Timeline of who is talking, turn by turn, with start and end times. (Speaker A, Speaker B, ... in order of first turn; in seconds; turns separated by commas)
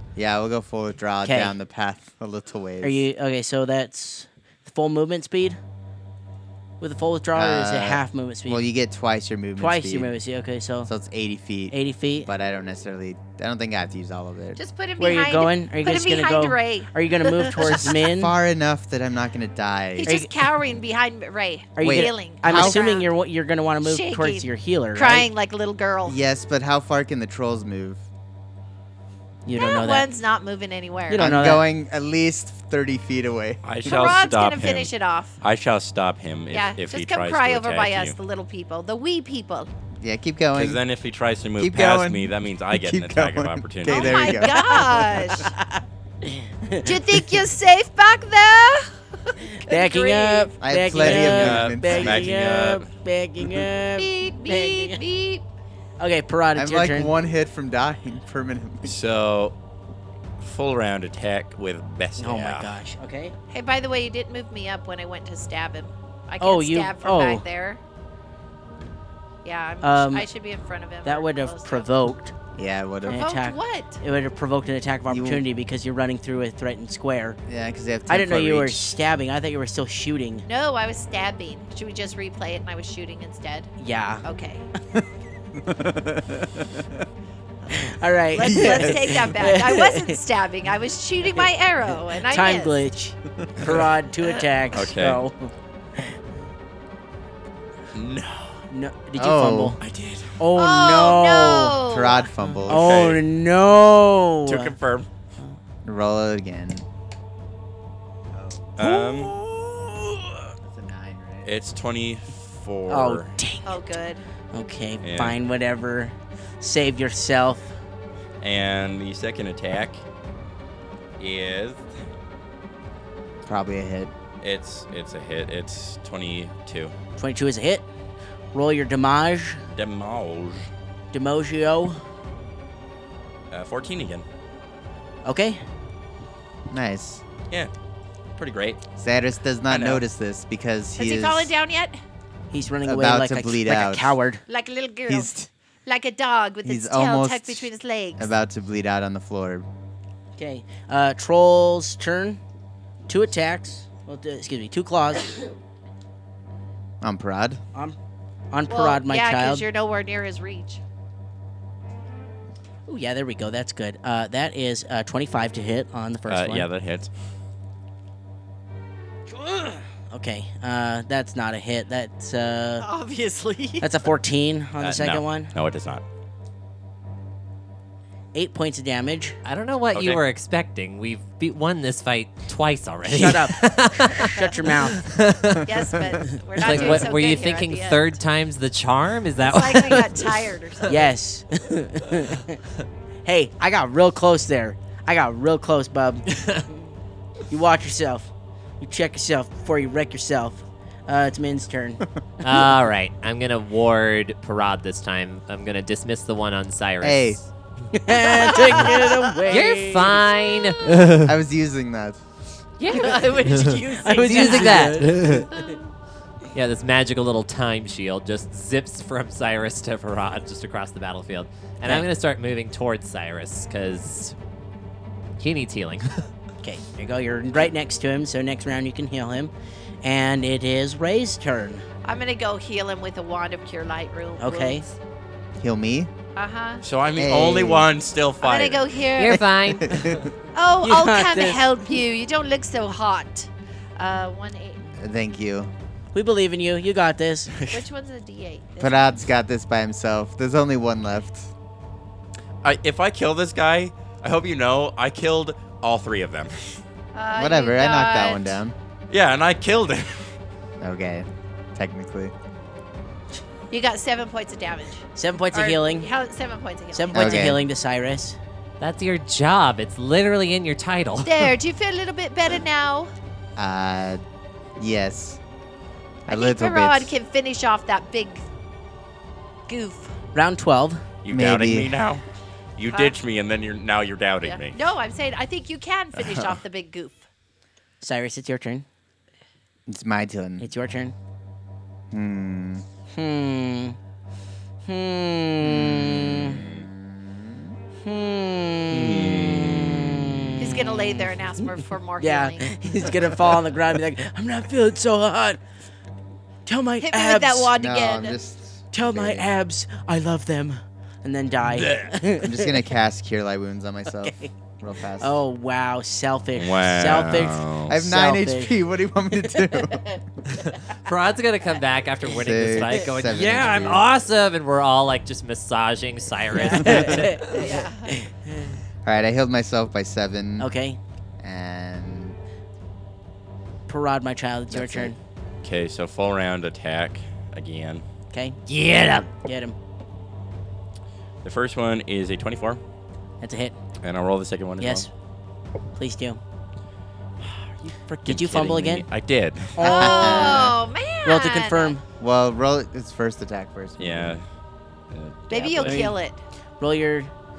Speaker A: 0.2-3.0, Speaker B: 1.2-1.5, Speaker B: 2.8-5.6, Speaker B: 6.8-8.6, Speaker A: 7.3-10.1, Speaker B: 9.6-10.9, Speaker A: 10.9-14.6, Speaker B: 11.7-12.3, Speaker C: 14.6-17.9, Speaker B: 15.0-18.3, Speaker A: 17.6-20.2, Speaker C: 20.0-23.1, Speaker B: 20.1-20.3, Speaker B: 21.8-25.3, Speaker A: 21.8-22.8, Speaker C: 23.8-26.2, Speaker A: 26.1-28.0, Speaker B: 29.4-30.1, Speaker C: 29.6-31.3, Speaker B: 31.1-31.7, Speaker A: 31.1-34.0, Speaker D: 33.6-38.2, Speaker C: 33.8-35.4, Speaker C: 36.5-39.7, Speaker A: 40.0-40.8, Speaker D: 40.5-44.5, Speaker A: 41.6-45.4, Speaker C: 43.9-45.5, Speaker B: 45.4-47.0, Speaker C: 46.8-50.5, Speaker B: 49.5-55.0, Speaker A: 50.6-52.2, Speaker D: 51.0-52.9, Speaker C: 54.0-55.4, Speaker B: 56.0-57.1, Speaker A: 56.5-59.0, Speaker D: 58.8-59.5, Speaker D: 60.4-62.8, Speaker B: 62.2-63.3, Speaker C: 63.5-67.8, Speaker B: 66.4-67.5, Speaker C: 69.4-71.9, Speaker B: 69.8-70.3, Speaker B: 71.0-72.3, Speaker A: 72.5-73.3, Speaker B: 73.0-77.4, Speaker C: 73.1-74.0, Speaker A: 75.1-75.4, Speaker A: 77.5-78.9, Speaker B: 78.1-80.5, Speaker C: 80.5-83.7, Speaker B: 83.8-84.2, Speaker C: 84.2-84.7, Speaker A: 85.5-87.0, Speaker B: 87.7-90.2, Speaker C: 88.3-92.8, Speaker A: 88.5-89.2, Speaker B: 91.3-96.1, Speaker D: 94.7-95.2, Speaker D: 97.9-98.6, Speaker B: 98.7-99.8, Speaker A: 99.2-99.8, Speaker D: 99.8-100.4, Speaker B: 100.4-101.8, Speaker C: 100.5-102.3, Speaker A: 101.9-103.0, Speaker B: 102.7-104.7, Speaker D: 102.7-103.2, Speaker D: 104.5-105.1, Speaker A: 105.8-106.8, Speaker A: 108.3-109.0, Speaker D: 108.8-109.4, Speaker B: 108.8-109.7, Speaker A: 110.6-111.5, Speaker D: 111.4-113.3, Speaker B: 112.9-113.8, Speaker C: 113.6-114.2, Speaker B: 114.5-117.7, Speaker D: 115.0-115.4, Speaker D: 118.4-120.0, Speaker D: 121.2-121.9, Speaker A: 123.5-124.1, Speaker D: 124.4-127.0, Speaker B: 127.2-127.9, Speaker B: 128.5-129.6, Speaker D: 129.7-130.7, Speaker B: 131.1-132.0, Speaker D: 133.5-134.2, Speaker B: 135.2-135.6, Speaker A: 136.7-137.2, Speaker D: 138.4-138.8, Speaker A: 139.0-141.5, Speaker D: 139.7-140.0, Speaker C: 141.0-142.0, Speaker B: 142.5-144.4, Speaker A: 142.8-144.2, Speaker C: 144.5-145.3, Speaker A: 145.1-145.5, Speaker C: 145.9-148.3, Speaker A: 146.6-149.7, Speaker B: 150.4-152.4, Speaker B: 153.1-155.5, Speaker A: 157.0-157.6, Speaker B: 158.5-159.7, Speaker C: 158.7-160.8, Speaker B: 162.9-166.7, Speaker D: 166.3-167.1, Speaker B: 169.3-172.9, Speaker C: 172.8-173.9, Speaker B: 173.8-175.5, Speaker D: 174.8-176.0, Speaker B: 178.3-179.4, Speaker E: 179.4-185.7, Speaker D: 179.9-180.2, Speaker B: 183.0-185.1, Speaker C: 184.3-184.7, Speaker C: 185.6-188.2, Speaker E: 186.6-190.5, Speaker C: 189.4-191.1, Speaker B: 190.9-192.6, Speaker B: 193.2-196.3, Speaker B: 197.5-202.7, Speaker E: 202.4-207.4, Speaker A: 207.0-207.4, Speaker B: 207.9-210.3, Speaker C: 208.3-209.2, Speaker E: 209.5-211.3, Speaker A: 211.2-212.2, Speaker E: 212.8-215.5, Speaker C: 212.9-215.0, Speaker B: 213.9-215.7, Speaker E: 216.5-224.3, Speaker E: 225.4-226.3, Speaker B: 226.6-229.5, Speaker B: 230.0-231.9, Speaker C: 232.0-235.0, Speaker B: 234.4-234.8, Speaker A: 235.6-236.1, Speaker C: 236.4-236.8, Speaker D: 236.8-239.0, Speaker A: 237.2-237.9, Speaker C: 238.4-239.5, Speaker E: 239.2-240.2, Speaker A: 239.3-240.3, Speaker C: 240.5-244.8, Speaker B: 240.8-241.8, Speaker A: 245.0-245.7, Speaker B: 246.1-247.5, Speaker D: 247.6-247.8, Speaker C: 247.7-249.2, Speaker A: 248.8-251.5, Speaker D: 252.6-256.8, Speaker C: 257.1-258.6, Speaker A: 257.3-258.8, Speaker D: 259.1-260.4, Speaker A: 260.8-262.3, Speaker C: 263.7-267.5, Speaker B: 265.1-266.1, Speaker B: 266.9-268.4, Speaker A: 267.1-267.6, Speaker E: 268.8-271.5, Speaker C: 271.2-273.1, Speaker A: 273.6-274.2, Speaker A: 274.8-275.4, Speaker A: 276.3-277.1, Speaker C: 276.3-278.4, Speaker C: 279.7-280.2, Speaker B: 280.3-281.1, Speaker D: 281.2-282.2, Speaker A: 281.3-281.9, Speaker D: 282.8-284.8, Speaker C: 282.9-283.2, Speaker C: 284.4-287.3, Speaker B: 288.0-288.9, Speaker A: 289.9-290.7, Speaker B: 290.6-291.1, Speaker A: 292.1-292.8, Speaker B: 293.1-294.0, Speaker B: 294.9-296.6, Speaker A: 295.7-297.8, Speaker D: 296.5-296.9, Speaker B: 298.0-301.3, Speaker D: 298.9-300.0, Speaker C: 300.6-302.8, Speaker B: 302.2-305.6, Speaker B: 306.7-307.7, Speaker C: 307.0-308.4, Speaker A: 307.8-309.5, Speaker B: 308.9-312.8, Speaker A: 312.4-315.4, Speaker B: 314.1-314.5, Speaker B: 315.2-318.8, Speaker D: 316.6-318.0, Speaker A: 317.9-320.2, Speaker B: 319.6-320.2, Speaker E: 320.6-327.6, Speaker A: 322.3-324.1, Speaker B: 326.5-328.7, Speaker C: 327.5-328.1, Speaker A: 329.0-330.7, Speaker B: 330.6-331.0, Speaker A: 331.4-332.4, Speaker B: 333.9-335.2, Speaker A: 334.7-335.1, Speaker D: 335.6-338.1, Speaker B: 338.3-338.6, Speaker E: 338.7-339.3, Speaker B: 339.3-339.8, Speaker D: 341.4-342.8, Speaker B: 343.4-343.8, Speaker D: 344.0-345.1, Speaker B: 344.8-345.1, Speaker B: 345.9-346.4, Speaker B: 347.8-349.1, Speaker D: 348.3-349.9, Speaker B: 349.7-350.7, Speaker A: 349.8-350.7, Speaker C: 349.8-351.9, Speaker B: 351.2-352.1, Speaker A: 352.2-354.3, Speaker D: 354.0-354.4, Speaker D: 355.1-356.1, Speaker C: 355.5-356.4, Speaker B: 355.8-356.1, Speaker B: 356.8-357.3